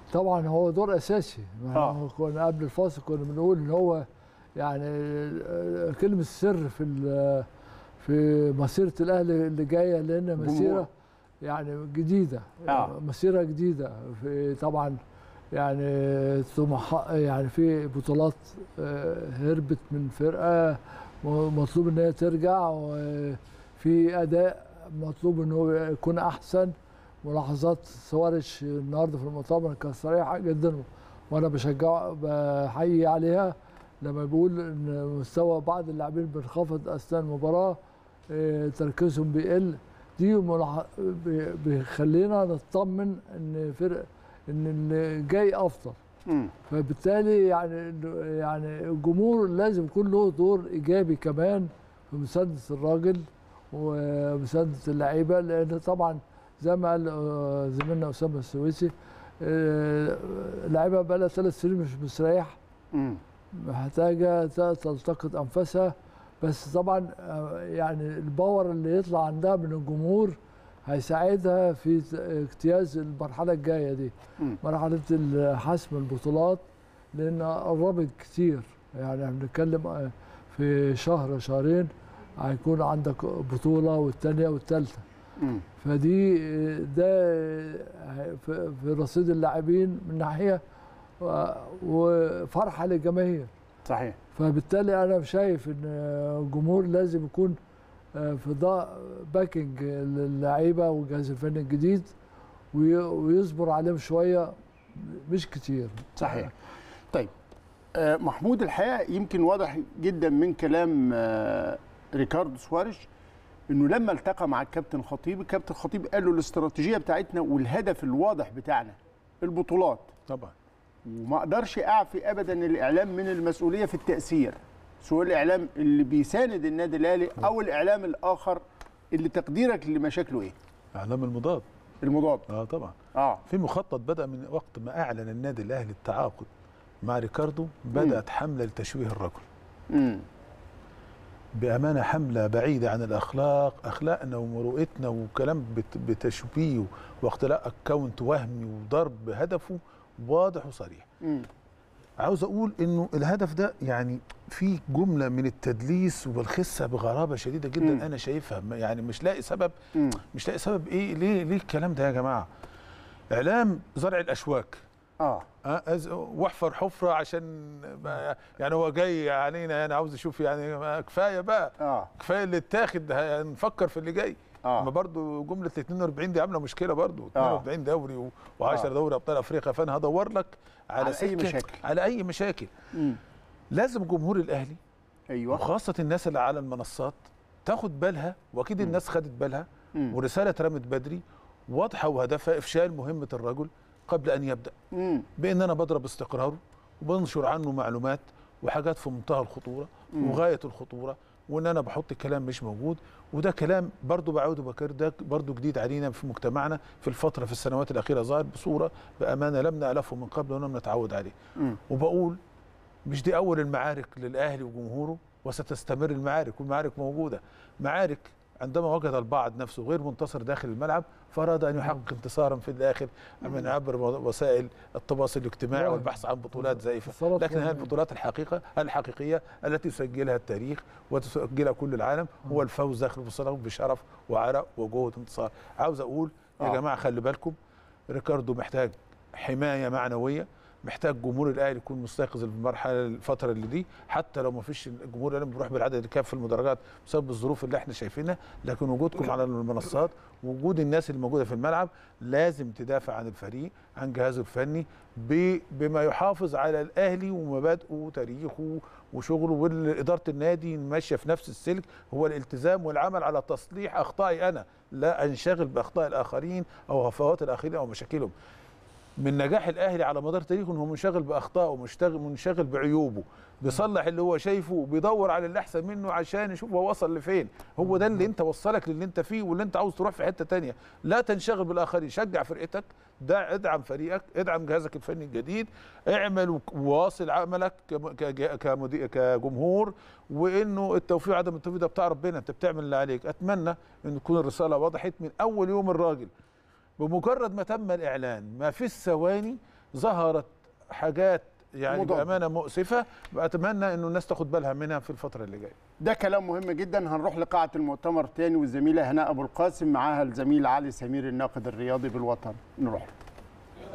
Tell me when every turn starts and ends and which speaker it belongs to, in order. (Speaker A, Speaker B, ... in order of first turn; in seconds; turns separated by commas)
Speaker A: 0.1-4.0, Speaker A: 4.6-7.5, Speaker A: 8.0-10.9, Speaker B: 10.4-10.8, Speaker A: 11.4-15.0, Speaker B: 12.7-12.9, Speaker A: 15.5-26.7, Speaker A: 27.2-37.8, Speaker A: 38.3-46.0, Speaker B: 46.3-46.5, Speaker A: 46.7-62.6, Speaker B: 62.9-63.2, Speaker A: 63.5-85.0, Speaker B: 85.4-85.6, Speaker A: 85.8-90.6, Speaker A: 91.2-93.5, Speaker B: 93.9-94.2, Speaker A: 94.3-97.6, Speaker A: 98.2-102.1, Speaker A: 102.7-106.4, Speaker B: 106.2-106.5, Speaker B: 108.0-113.0, Speaker B: 113.7-120.1, Speaker C: 120.3-120.5, Speaker B: 121.1-128.6, Speaker B: 129.1-130.6, Speaker C: 130.9-131.7, Speaker B: 132.0-132.5, Speaker C: 132.5-132.9, Speaker B: 133.2-133.4, Speaker C: 133.5-136.5, Speaker C: 137.0-139.4, Speaker B: 137.9-138.2, Speaker B: 139.9-140.2, Speaker C: 141.6-151.1, Speaker C: 152.2-159.7, Speaker B: 157.8-158.1, Speaker B: 160.0-160.2, Speaker C: 160.3-162.5, Speaker C: 163.3-164.8, Speaker B: 165.2-165.5, Speaker C: 165.6-182.7, Speaker B: 171.8-172.1, Speaker B: 174.6-174.9, Speaker B: 177.4-177.7, Speaker B: 181.0-181.8, Speaker B: 182.9-183.2, Speaker C: 183.7-184.8, Speaker B: 185.3-185.6, Speaker C: 185.5-194.7, Speaker B: 194.9-195.3, Speaker C: 195.4-211.4, Speaker B: 200.1-200.4, Speaker C: 211.9-212.4, Speaker C: 213.1-237.6, Speaker A: 225.7-227.9, Speaker C: 238.1-268.3, Speaker C: 269.2-296.3, Speaker C: 297.0-305.8, Speaker B: 301.9-302.3, Speaker B: 306.0-313.1